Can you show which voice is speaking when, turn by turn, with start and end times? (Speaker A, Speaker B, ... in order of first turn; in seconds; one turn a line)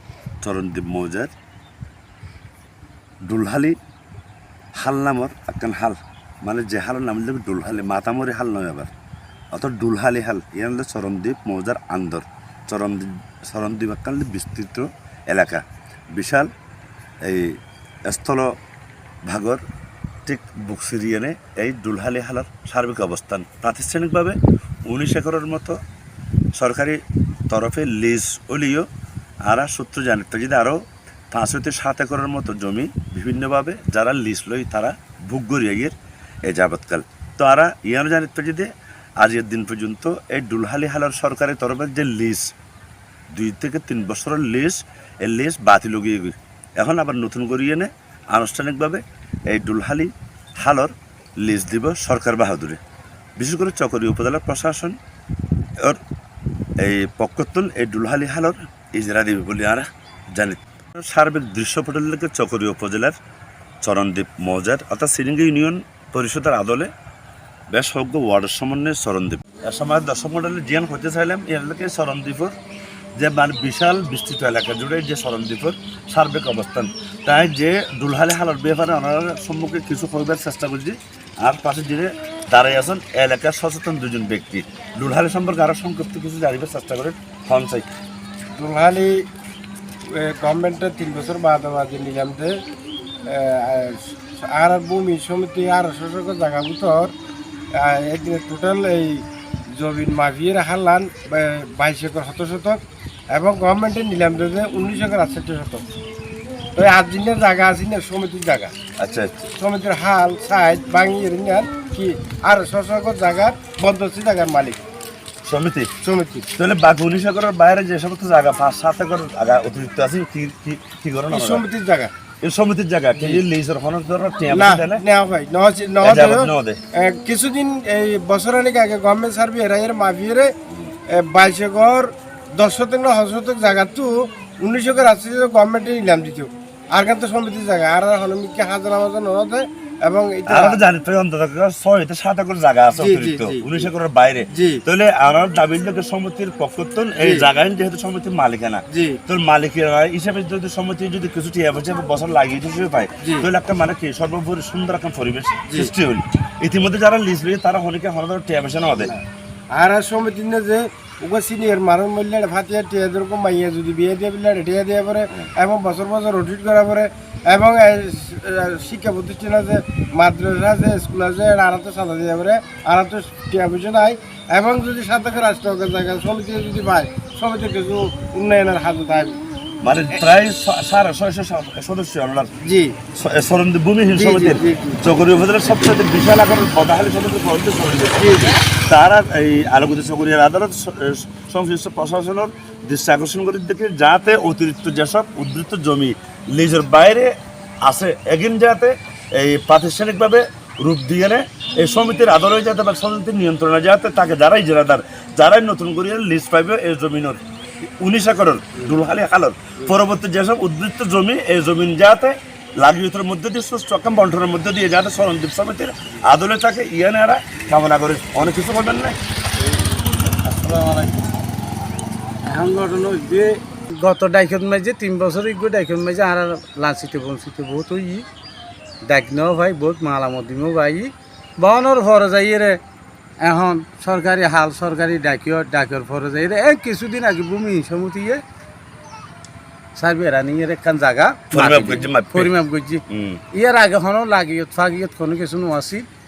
Speaker A: 0.4-1.3
Speaker A: 3.2-3.8
Speaker A: 4.8-8.9
Speaker A: 9.5-15.6
Speaker A: 16.1-16.5
Speaker A: 17.2-18.5
Speaker A: 19.3-19.6
Speaker A: 20.3-25.8
Speaker A: 26.6-28.9
Speaker A: 29.5-42.5
Speaker A: 43.3-52.8
Speaker A: 53.4-55.0
Speaker A: 56.8-63.1
Speaker A: 63.8-66.9
Speaker A: 67.7-72.5
Speaker A: 73.2-87.9
Speaker B: 88.6-89.2
Speaker B: 90.1-92.6
Speaker B: 93.3-97.1
Speaker B: 97.8-102.8
Speaker B: 103.3-105.8
Speaker B: 106.8-108.7
Speaker A: 109.0-109.5
Speaker B: 109.6-114.8
Speaker A: 115.5-115.9
Speaker B: 116.0-116.5
Speaker A: 116.5-121.6
Speaker B: 121.3-122.1
Speaker A: 122.4-125.0
Speaker B: 124.5-130.5
Speaker A: 126.0-126.8
Speaker B: 131.1-140.8
Speaker A: 140.5-159.1
Speaker B: 142.9-143.9
Speaker B: 144.5-144.8
Speaker B: 147.2-147.5
Speaker B: 148.9-149.2
Speaker B: 153.2-153.5
Speaker B: 155.7-155.9
Speaker B: 158.9-179.4
Speaker A: 179.8-182.5
Speaker B: 182.6-183.0
Speaker A: 183.1-207.4
Speaker B: 184.1-185.0
Speaker B: 188.2-188.5
Speaker A: 208.0-219.2
Speaker C: 220.1-221.2
Speaker A: 220.3-220.8
Speaker C: 222.4-228.2
Speaker C: 229.1-232.8
Speaker C: 233.4-238.4
Speaker C: 239.9-246.1
Speaker A: 241.5-242.5
Speaker A: 243.1-243.4